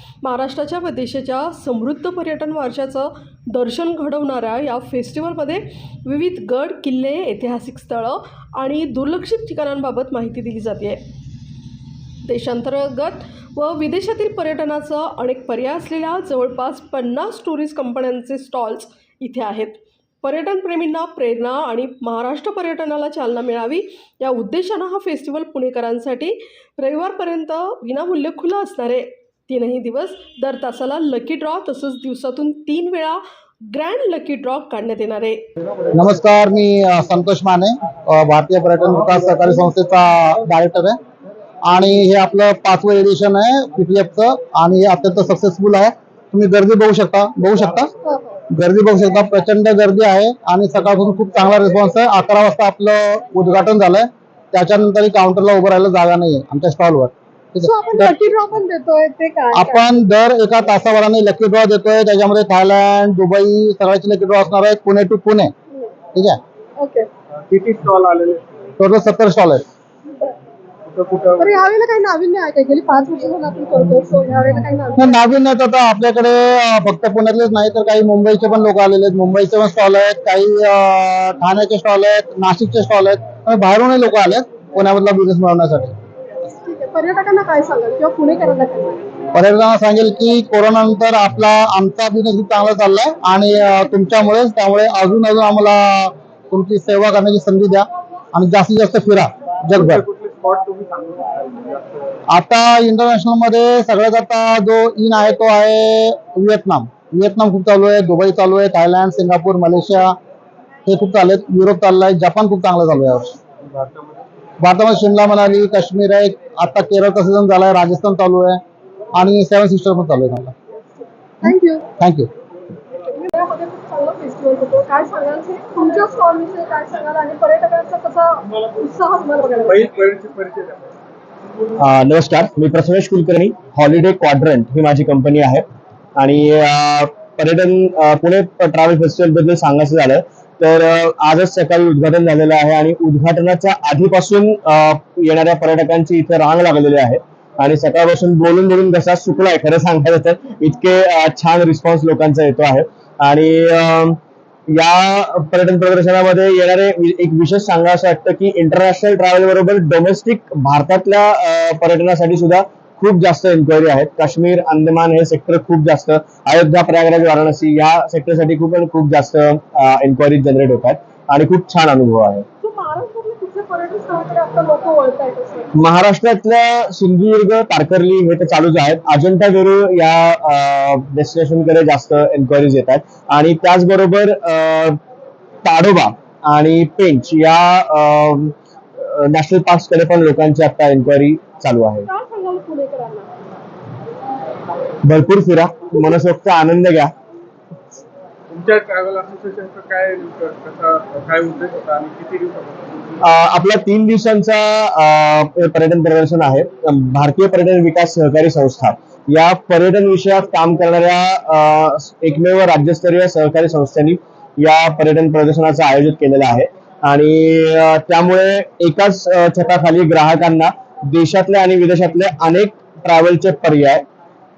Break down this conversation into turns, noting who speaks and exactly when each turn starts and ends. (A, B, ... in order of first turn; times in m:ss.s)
0:00.2-0:11.0 A
0:12.3-0:35.4 A
0:35.9-0:41.0 B
0:41.7-0:47.9 B
0:48.1-0:48.4 C
0:48.5-0:58.2 B
0:57.6-0:59.9 C
0:59.5-1:05.5 B
1:06.1-1:06.4 B
1:06.8-1:07.1 C
1:07.5-1:08.4 D
1:08.8-1:09.6 B
1:10.1-1:10.4 C
1:10.9-1:11.6 D
1:11.4-1:15.2 C
1:15.0-1:25.9 B
1:26.6-1:29.1 C
1:29.3-1:40.0 B
1:39.7-1:42.2 D
1:42.3-1:50.2 B
1:50.9-1:53.4 B
1:53.7-1:54.0 D
1:54.6-1:58.6 B
1:59.2-2:00.5 B
2:01.4-2:01.9 C
2:02.0-2:02.3 B
2:03.1-2:09.8 C
2:09.7-2:10.9 D
2:11.8-2:15.6 E
2:16.2-2:34.2 E
2:34.7-2:52.5 E
2:52.6-2:55.7 C
2:55.8-3:05.0 E
3:05.6-3:12.1 E
3:12.1-3:13.3 C
3:15.0-3:17.1 E
3:18.5-3:23.2 D
3:23.2-3:44.0 E